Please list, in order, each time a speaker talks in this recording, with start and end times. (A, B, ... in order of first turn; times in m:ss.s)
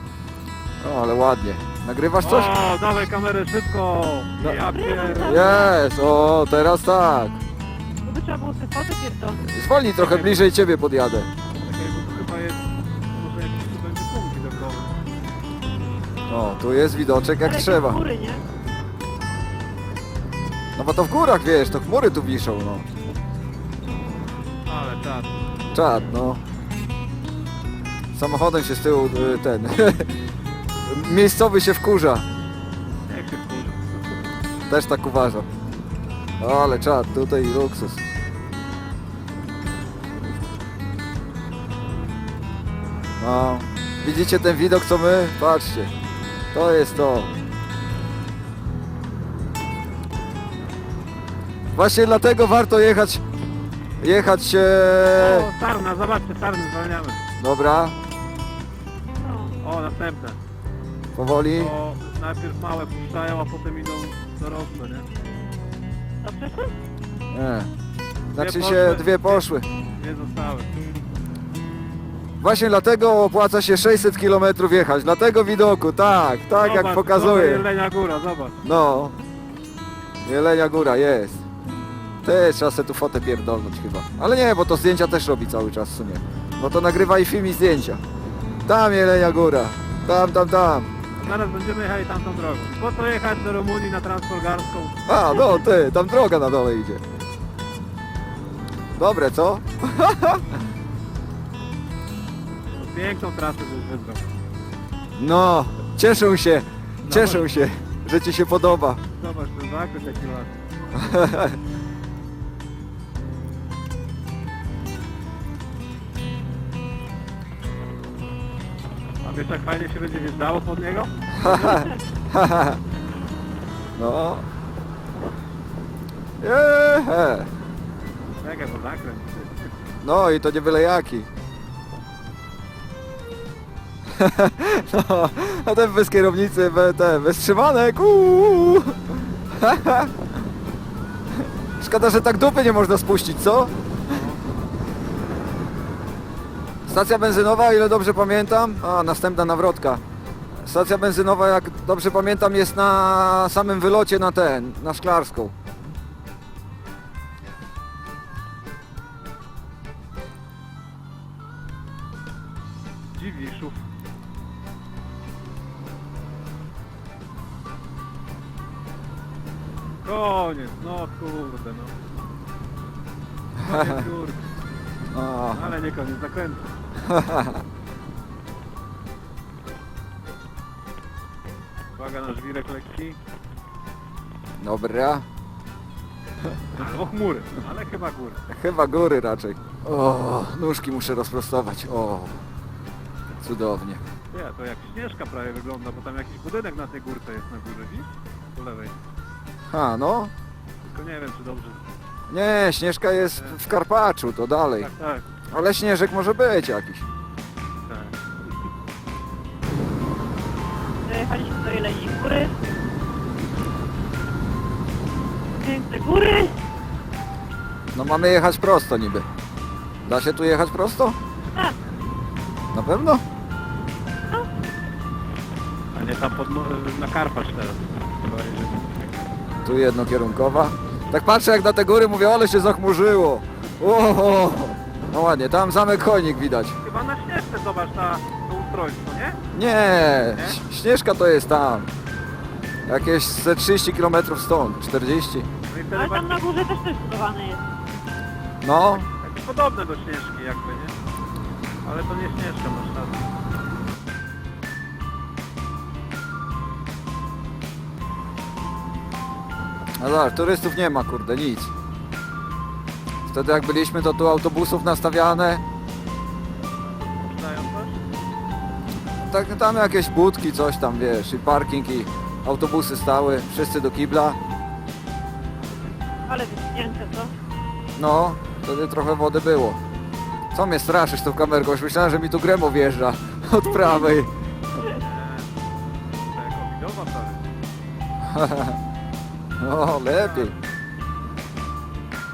0:00.8-0:02.5 A
0:02.2-0:05.7 B
0:04.4-0:07.4 A
0:04.6-0:05.7 C
0:08.0-0:09.5 C
0:09.4-0:11.3 A
0:09.9-0:10.4 B
0:11.6-0:12.6 B
0:13.1-0:14.9 B
0:16.3-0:18.0 A
0:17.4-0:18.4 C
0:20.8-0:22.9 A
0:24.6-0:25.3 B
0:25.7-0:26.4 A
0:28.1-0:30.2 A
0:30.8-0:32.2 A
0:33.0-0:33.8 B
0:34.7-0:35.5 A
0:36.4-0:38.0 A
0:43.2-0:45.9 A
0:46.5-0:47.4 A
0:51.7-0:53.2 A
0:54.0-0:55.5 A
0:55.1-0:57.2 B
0:57.4-0:58.0 A
0:59.2-0:59.6 C
0:59.6-1:00.4 B
1:01.1-1:01.7 A
1:01.5-1:05.0 B
1:06.2-1:06.7 C
1:07.3-1:07.7 A
1:08.3-1:09.7 A
1:08.4-1:10.7 B
1:12.4-1:17.6 A
1:16.6-1:18.6 B
1:18.6-1:19.1 A
1:20.2-1:21.4 A
1:22.2-1:28.0 A
1:28.6-1:30.9 A
1:31.2-1:35.2 B
1:35.1-1:37.0 A
1:35.3-1:35.6 C
1:38.9-1:40.5 A
1:42.7-1:44.2 B
1:45.2-1:49.0 A
1:47.1-1:47.4 B
1:49.1-1:50.6 B
1:50.9-1:51.6 A
1:59.2-2:01.1 B
2:01.4-2:02.8 A
2:01.4-2:02.0 C
2:03.9-2:04.4 A
2:06.4-2:07.5 A
2:08.4-2:09.7 B
2:10.0-2:11.3 A
2:14.1-2:20.2 A
2:21.3-2:23.7 A
2:24.0-2:24.5 B
2:26.9-2:30.0 A
2:30.6-2:35.5 A
2:43.1-2:43.8 B
2:50.0-2:51.9 B
2:53.6-2:54.0 A
2:53.6-2:54.4 B
2:55.1-2:55.8 A
2:55.5-2:56.7 B
2:57.1-2:57.6 A
3:02.0-3:03.2 B
3:04.6-3:05.2 A
3:06.7-3:08.4 B
3:08.5-3:12.4 A
3:13.3-3:14.0 A
3:14.3-3:18.9 B
3:19.7-3:20.3 A
3:20.8-3:21.8 B
3:22.3-3:24.9 A
3:23.1-3:23.6 B
3:24.8-3:25.2 B
3:25.5-3:27.0 A
3:27.9-3:28.1 B
3:31.0-3:32.6 C
3:35.6-3:36.5 C
3:37.9-3:39.3 A
3:40.0-3:41.2 A
3:42.7-3:43.2 A
3:45.9-3:48.9 B
3:49.6-3:56.8 A
3:56.8-3:59.4 B
3:59.5-4:01.9 A
4:00.3-4:00.6 B
4:02.8-4:05.5 A
4:05.6-4:06.5 B
4:05.9-4:07.6 C
4:08.6-4:09.1 A
4:08.9-4:10.9 B
4:11.8-4:13.2 B
4:20.0-4:21.7 A
4:23.3-4:25.6 A
4:26.9-4:28.0 B
4:29.2-4:34.4 A
4:36.2-4:37.3 C
4:38.0-4:39.8 A
4:40.5-4:44.3 A
4:43.7-4:44.1 C
4:45.0-4:45.5 B
4:46.2-4:47.4 B
4:48.2-4:48.8 A
4:49.6-4:50.5 A
4:50.1-4:50.6 B